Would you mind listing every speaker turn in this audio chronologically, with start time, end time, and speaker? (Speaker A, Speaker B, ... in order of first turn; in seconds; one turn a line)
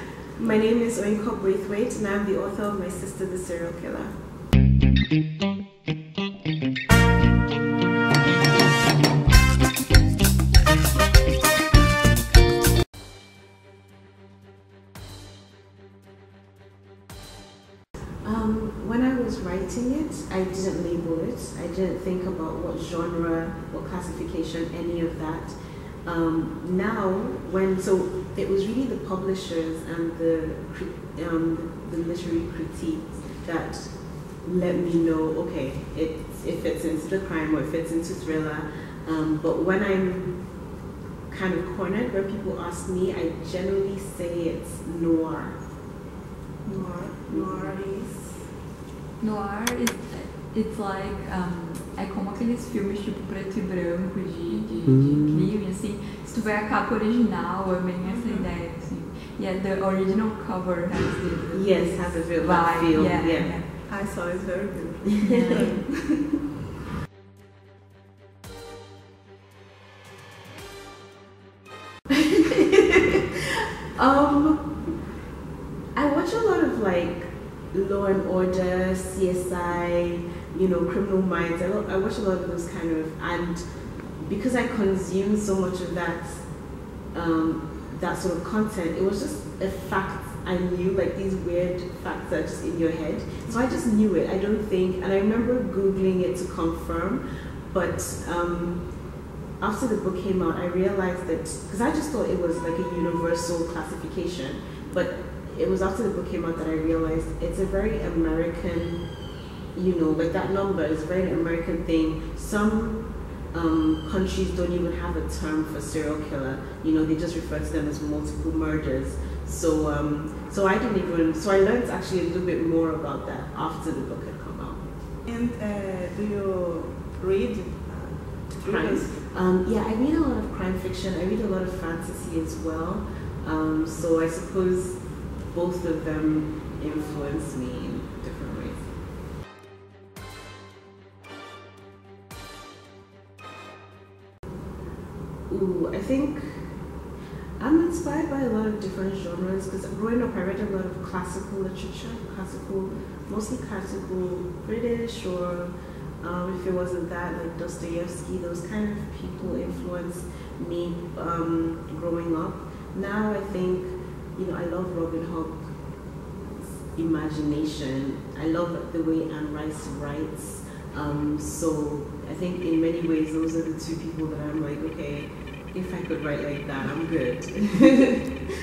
Speaker A: 0.4-4.2
Speaker A: 18.2-40.5
Speaker A: 41.3-45.6
Speaker B: 46.6-48.3
Speaker A: 47.3-47.8
Speaker C: 49.2-63.8
Speaker B: 58.0-58.5
Speaker A: 61.5-63.6
Speaker B: 63.9-66.2
Speaker C: 65.2-65.8
Speaker A: 72.1-74.7
Speaker A: 75.9-83.6
Speaker A: 84.2-86.5
Speaker A: 87.1-98.9
Speaker A: 99.6-109.0
Speaker A: 109.7-124.9
Speaker B: 125.3-129.2
Speaker A: 128.6-138.9
Speaker A: 145.5-146.7
Speaker A: 147.6-165.8
Speaker A: 166.3-178.4